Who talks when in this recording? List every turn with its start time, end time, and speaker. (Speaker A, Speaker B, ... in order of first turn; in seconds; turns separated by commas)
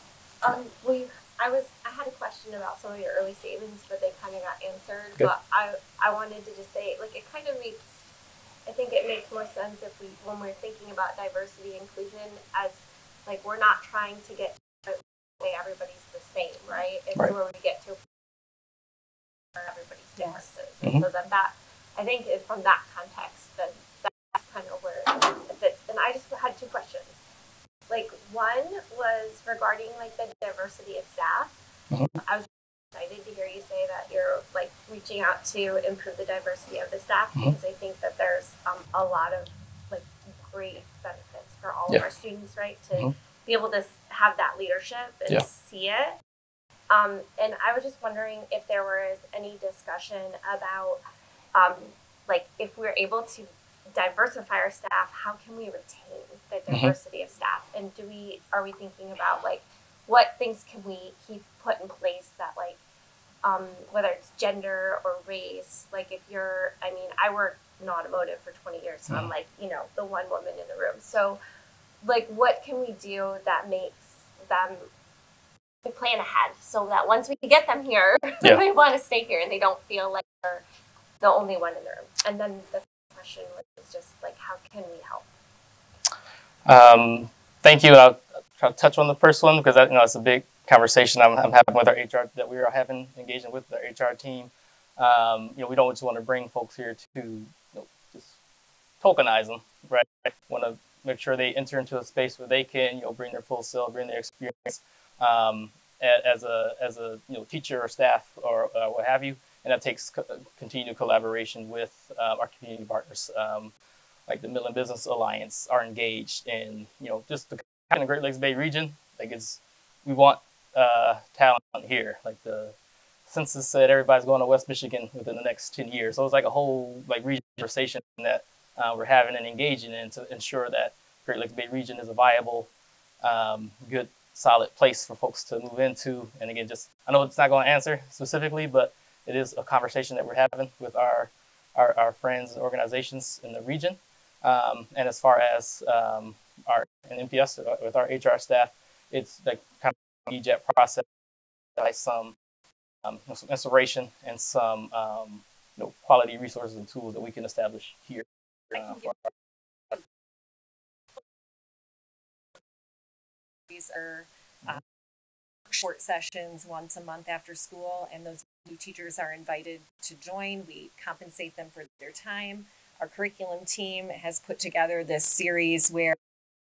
Speaker A: 0.4-7.9, Speaker A: 8.7-18.0, Speaker A: 19.6-27.2, Speaker B: 20.2-20.5, Speaker A: 27.9-31.6, Speaker A: 32.2-46.2, Speaker A: 46.9-51.0, Speaker A: 51.5-62.8, Speaker C: 56.7-57.0, Speaker A: 63.4-71.4, Speaker A: 72.0-74.9, Speaker A: 75.8-80.6, Speaker A: 81.2-85.2, Speaker C: 86.7-98.4, Speaker C: 99.0-113.7, Speaker C: 114.3-122.8, Speaker C: 123.3-132.7, Speaker C: 133.2-151.1, Speaker C: 151.8-152.4, Speaker C: 153.0-159.1, Speaker B: 158.8-159.1, Speaker B: 163.7-164.7, Speaker B: 165.7-176.2